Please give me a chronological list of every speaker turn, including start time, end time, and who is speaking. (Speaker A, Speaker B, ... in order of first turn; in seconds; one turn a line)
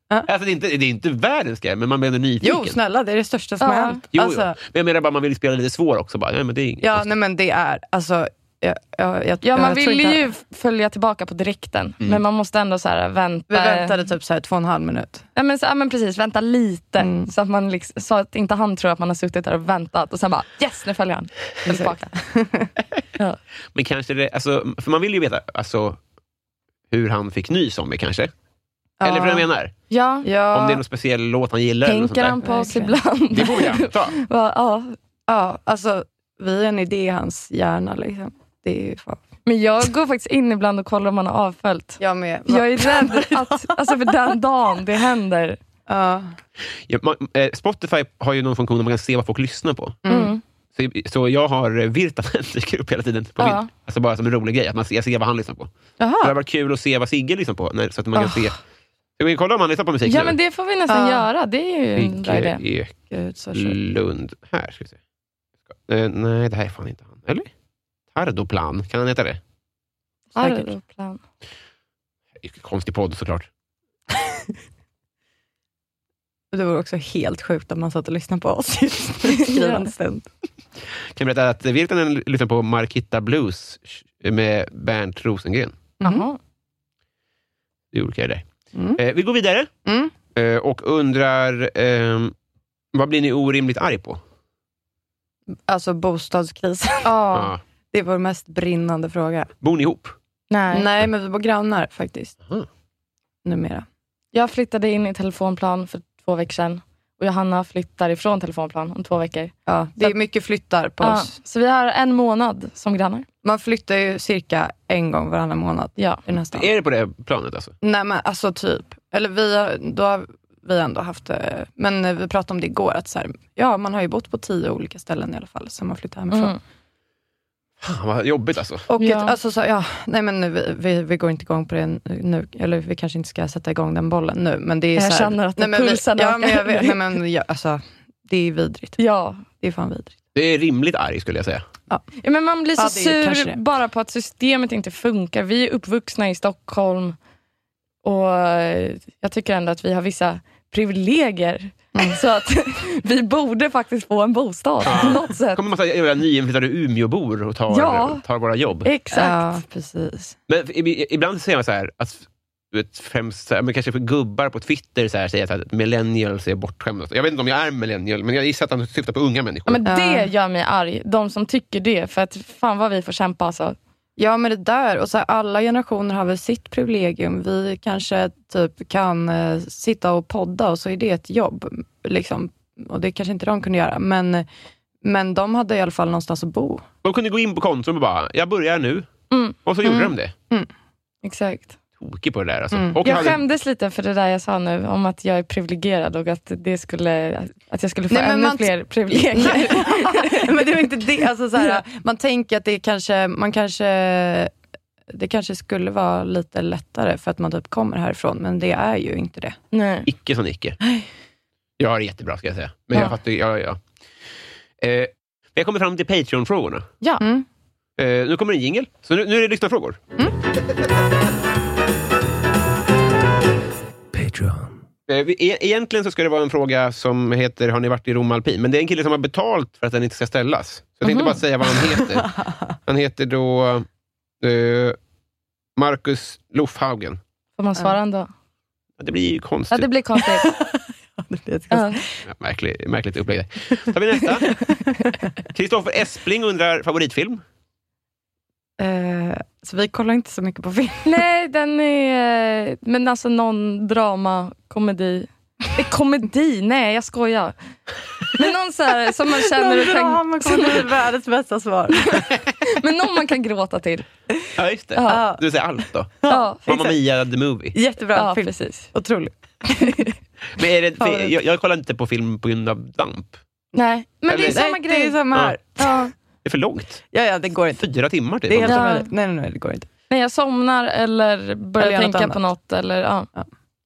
Speaker A: 0.2-2.8
Speaker B: 2.4-4.5
Speaker C: 3.6-4.0
Speaker A: 4.1-7.1
Speaker B: 6.8-10.2
Speaker C: 9.4-13.9
Speaker B: 13.5-15.2
Speaker C: 15.3-22.1
Speaker B: 17.0-17.3
Speaker B: 21.6-22.7
Speaker A: 23.7-26.0
Speaker A: 26.9-28.3
Speaker B: 29.0-29.4
Speaker A: 29.0-29.7
Speaker C: 29.9-30.3
Speaker B: 30.2-30.8
Speaker A: 30.5-32.4
Speaker C: 31.8-35.0
Speaker B: 32.4-32.9
Speaker A: 33.3-34.1
Speaker B: 35.3-39.2
Speaker C: 39.5-45.6
Speaker B: 42.0-43.7
Speaker B: 45.9-46.3
Speaker A: 46.9-50.0
Speaker B: 50.0-50.3
Speaker C: 50.1-50.4
Speaker A: 50.7-55.7
Speaker C: 53.4-53.7
Speaker B: 56.0-56.3
Speaker A: 56.2-58.6
Speaker A: 59.2-60.4
Speaker C: 60.0-62.6
Speaker B: 60.9-61.2
Speaker A: 62.0-62.9
Speaker B: 63.1-63.8
Speaker A: 63.5-65.0
Speaker A: 65.7-67.5
Speaker A: 68.1-69.4
Speaker C: 70.3-71.2
Speaker B: 70.3-70.7
Speaker A: 72.4-73.5
Speaker B: 76.5-80.3
Speaker C: 79.4-79.9
Speaker A: 81.1-85.8
Speaker C: 86.0-86.4
Speaker A: 87.9-88.4
Speaker B: 88.7-89.0
Speaker A: 89.0-89.7
Speaker B: 89.8-90.1
Speaker A: 90.3-92.3
Speaker A: 92.9-94.2
Speaker B: 95.7-97.2
Speaker C: 97.0-97.5
Speaker A: 97.3-97.6
Speaker B: 97.9-99.5
Speaker A: 99.6-100.1
Speaker C: 100.5-100.9
Speaker B: 100.7-102.3
Speaker B: 103.4-103.8
Speaker C: 104.3-110.2
Speaker B: 109.7-111.3
Speaker C: 111.0-113.2
Speaker B: 113.4-116.7
Speaker C: 116.0-116.2
Speaker A: 116.5-117.7
Speaker B: 117.8-126.5
Speaker C: 126.3-126.6
Speaker A: 127.8-128.9
Speaker B: 128.9-139.0
Speaker C: 129.0-129.3
Speaker C: 134.9-137.0
Speaker C: 139.0-139.4
Speaker B: 139.6-140.1
Speaker A: 140.3-141.6
Speaker C: 142.2-147.2
Speaker B: 142.8-143.6
Speaker C: 148.0-155.6
Speaker A: 154.8-158.9
Speaker C: 157.7-158.2
Speaker C: 158.8-159.4
Speaker B: 159.1-160.3
Speaker A: 160.5-169.8
Speaker C: 169.7-173.8
Speaker B: 169.8-170.3
Speaker B: 174.2-184.4
Speaker B: 185.0-186.8
Speaker A: 187.0-189.1
Speaker C: 189.3-189.6
Speaker A: 189.6-190.3
Speaker B: 189.8-190.7
Speaker C: 191.2-191.7
Speaker A: 192.0-193.4
Speaker B: 192.7-193.3
Speaker C: 193.0-200.7
Speaker B: 198.1-204.5
Speaker B: 205.1-209.6
Speaker C: 209.7-210.1
Speaker A: 210.1-210.8
Speaker B: 210.8-211.1
Speaker A: 211.8-213.8
Speaker A: 214.8-216.9
Speaker B: 217.2-217.4
Speaker A: 218.0-220.0
Speaker A: 224.2-224.5
Speaker A: 225.1-232.3
Speaker C: 231.0-231.4
Speaker B: 231.9-232.6
Speaker A: 232.8-233.9
Speaker A: 234.4-235.0
Speaker A: 235.8-237.2
Speaker C: 237.6-238.3
Speaker A: 239.0-239.9
Speaker C: 239.7-240.5
Speaker B: 240.2-242.2
Speaker C: 241.7-242.0
Speaker A: 242.3-244.5
Speaker B: 244.5-245.2
Speaker A: 245.5-247.4
Speaker B: 248.8-251.1
Speaker C: 251.0-257.6
Speaker C: 258.4-260.9
Speaker B: 259.4-262.3
Speaker C: 262.1-264.1
Speaker A: 264.6-267.7
Speaker C: 264.9-265.2
Speaker B: 265.1-265.4
Speaker B: 266.2-266.9
Speaker C: 266.3-266.7
Speaker B: 267.7-270.0
Speaker C: 268.1-268.9
Speaker C: 269.8-270.1
Speaker A: 270.6-273.4
Speaker B: 271.0-271.3
Speaker C: 273.7-275.2
Speaker A: 274.3-274.6
Speaker B: 274.3-276.0
Speaker C: 275.8-276.1
Speaker A: 276.4-277.1
Speaker B: 277.1-277.9
Speaker A: 277.8-278.8
Speaker B: 278.4-279.9
Speaker C: 278.6-279.1
Speaker C: 280.1-283.3
Speaker B: 281.8-282.4